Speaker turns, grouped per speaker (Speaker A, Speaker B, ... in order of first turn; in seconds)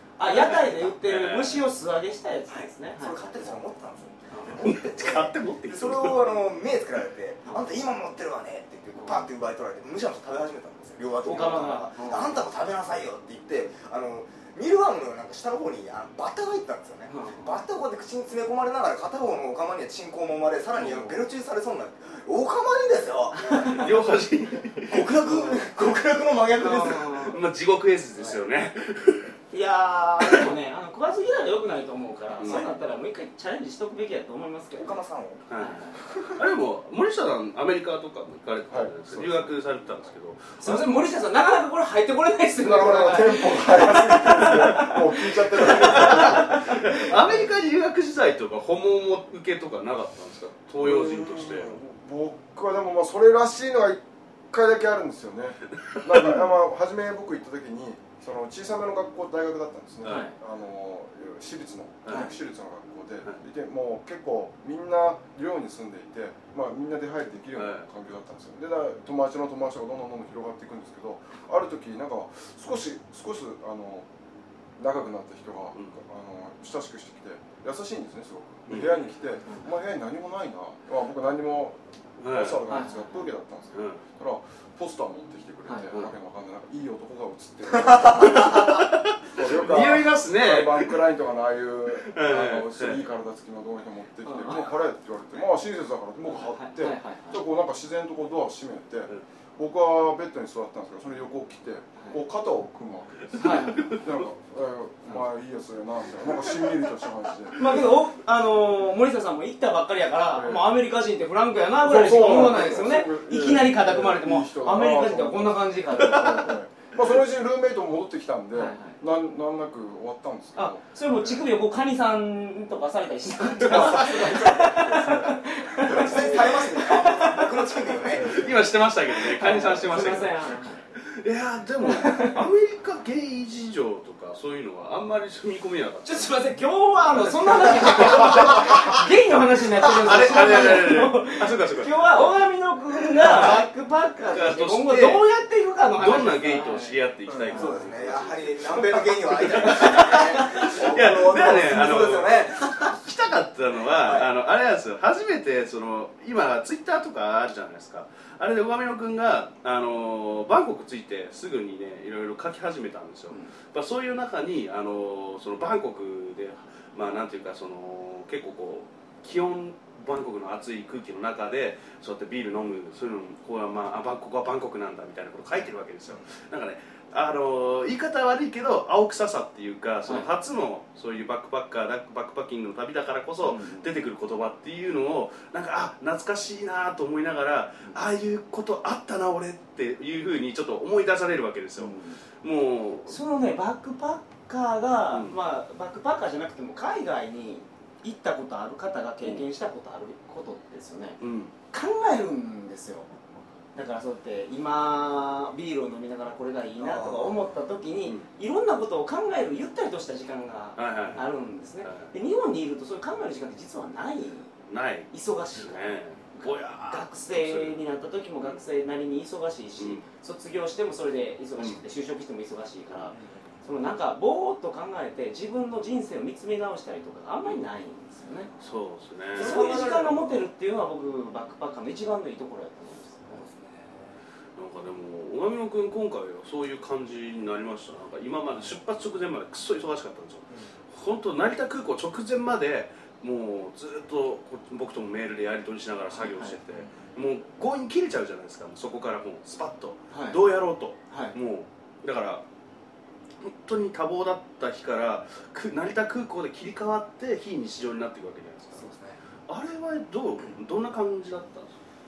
Speaker A: 0.2-3.2, 4.3-4.6, 9.0-9.3, 11.2-12.4, 17.1-17.6, 20.8-21.2, 23.4-23.9, 25.2-25.7, 26.6-27.4, 29.5-35.0, 35.5-36.0, 40.6-47.4, 60.0-60.3, 62.1-62.3, 82.7-83.3, 94.2-94.7, 96.2-97.4, 103.4-103.9, 107.5-116.6, 118.5-119.0, 120.5-127.8, 129.1-130.8, 131.8-132.4, 136.0-147.0, 147.5-147.9, 148.7-150.7, 183.4-183.9, 191.8-192.2, 193.1-201.2, 201.7-203.1, 203.7-214.5, 215.1-228.5, 229.3-233.4, 246.1-246.6, 250.1-250.4, 251.1-251.3
Speaker B: 0.2-1.6, 4.6-6.5, 23.7-25.2, 27.1-29.3, 32.4-32.6, 35.5-40.8, 45.7-51.8, 55.9-56.4, 62.0-62.3, 67.6-67.9, 78.7-79.0, 82.2-82.6, 83.7-84.0, 88.1-91.0, 92.1-93.0, 103.4-104.1, 128.1-136.4, 137.2-138.8, 139.8-142.3, 143.2-143.6, 144.3-145.2, 145.9-193.2, 201.2-201.5, 210.8-211.3, 211.8-212.1, 214.7-217.8, 219.8-220.0, 228.6-229.6, 234.6-252.4, 253.4-258.9, 259.5-261.7
Speaker C: 2.5-23.9, 24.9-27.2, 32.4-32.7, 34.7-35.4, 36.0-36.4, 50.9-51.8, 123.7-124.8, 125.8-128.4, 147.3-153.0, 154.0-154.3, 206.8-207.4, 223.1-223.6, 228.5-228.8, 229.3-230.5, 233.3-234.2, 240.5-240.8, 246.7-247.1, 258.7-259.2
Speaker D: 38.7-39.5, 42.6-47.1, 50.9-74.1, 74.8-107.8, 110.3-110.8, 111.8-121.5, 123.6-126.3, 128.1-128.7